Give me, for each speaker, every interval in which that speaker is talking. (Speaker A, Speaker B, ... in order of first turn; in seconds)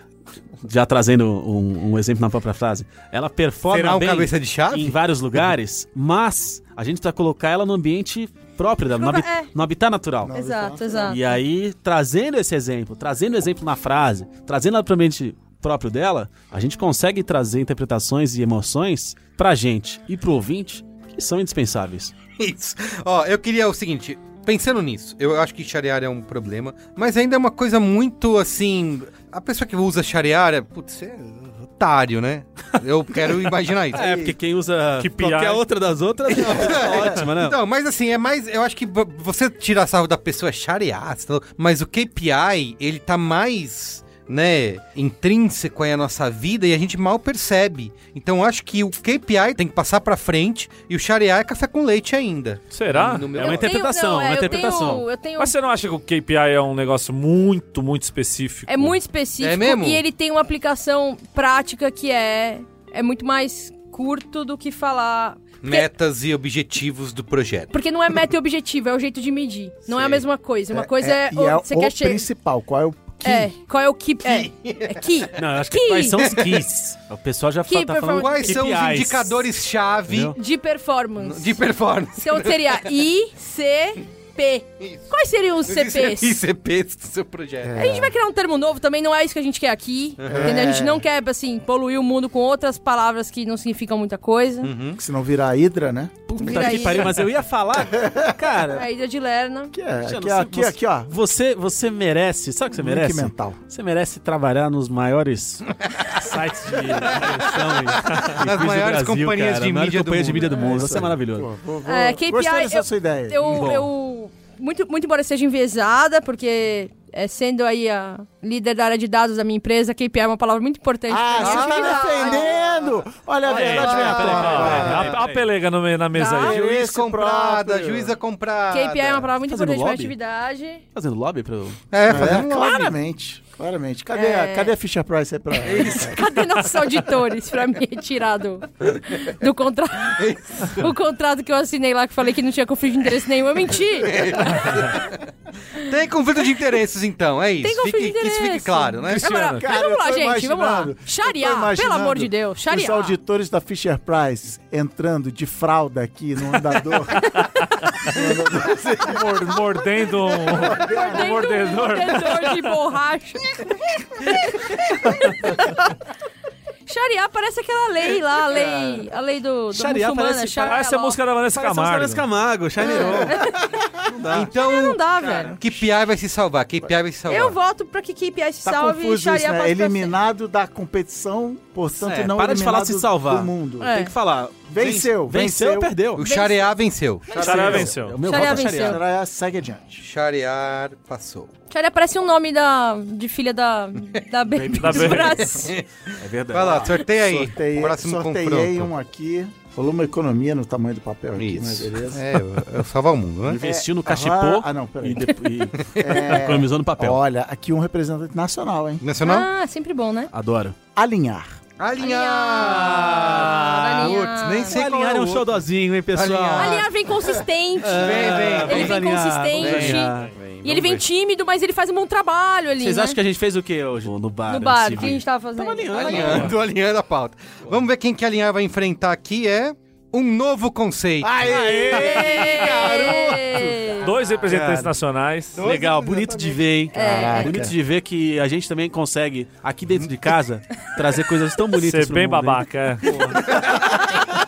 Speaker A: 0.6-10.3, 11.1-22.1, 33.9-37.6, 53.3-55.1, 75.4-79.4, 80.1-80.4, 96.3-98.8, 100.0-111.5, 113.4-113.9, 124.2-125.1, 129.4-130.1, 130.9-131.8, 169.7-170.8, 171.5-174.5, 175.2-175.6, 182.3-186.2, 187.3-189.0, 194.5-195.3, 196.2-196.9, 203.4-207.2, 210.3-210.8, 212.6-216.9, 217.8-220.3, 222.8-226.6, 231.4-233.9, 234.4-234.9, 235.6-243.3
Speaker B: 3.7-5.0, 22.4-34.1, 36.3-53.7, 59.4-60.0, 65.6-67.7, 69.9-70.2, 74.2-75.0, 76.2-76.7, 78.1-80.3, 81.2-82.8, 84.8-85.0, 85.6-87.8, 90.2-90.6, 94.6-95.0, 107.1-111.0, 121.4-122.7, 123.5-125.4, 126.4-129.3, 131.9-132.9, 135.6-136.2, 140.2-140.9, 144.0-145.2, 145.8-149.3, 158.5-159.1, 174.3-175.0, 175.6-177.6, 181.9-182.3, 186.2-187.9, 190.0-191.5, 195.6-198.9, 201.3-203.6, 205.9-206.3, 209.0-209.5, 211.8-216.9, 217.9-219.1, 219.6-221.0, 225.9-231.3, 232.0-233.3, 235.5-236.6, 243.0-244.0
Speaker C: 8.9-9.5, 10.3-11.3, 53.4-55.5, 58.7-65.9, 67.7-72.3, 73.2-76.2, 77.7-78.6, 80.3-81.6, 82.2-86.4, 87.8-94.7, 96.4-97.2, 98.7-99.7, 111.8-122.5, 126.1-126.6, 128.7-130.8, 134.1-134.7, 135.7-144.9, 147.6-153.2, 160.8-163.7, 164.3-164.7, 166.9-171.2, 172.8-173.6, 174.5-175.6, 177.3-180.1, 183.8-184.1, 186.2-186.7, 188.2-189.0, 191.7-195.7, 209.2-210.3, 212.0-214.8, 216.5-223.2, 224.5-226.5, 231.8-234.1, 236.9-237.7, 243.9-244.2
Speaker D: 10.2-11.2, 33.9-34.4, 36.7-37.1, 70.7-73.5, 87.6-88.1, 90.2-91.0, 95.0-96.1, 98.0-98.3, 99.7-101.1, 102.8-103.6, 110.5-113.7, 121.1-125.2, 126.3-128.2, 132.0-136.3, 149.5-157.5, 158.0-159.5, 160.4-161.6, 168.6-169.0, 178.6-183.9, 184.7-185.9, 188.3-190.0, 196.7-202.4, 203.6-209.0, 210.9-211.6, 231.2-233.1, 236.9-237.8
Speaker E: 35.0-35.6, 52.7-53.3, 55.4-59.0, 123.5-126.6, 149.1-149.6, 157.8-158.1, 159.0-162.7, 170.7-172.2, 187.3-188.2, 194.8-195.5, 234.0-235.6, 241.7-243.1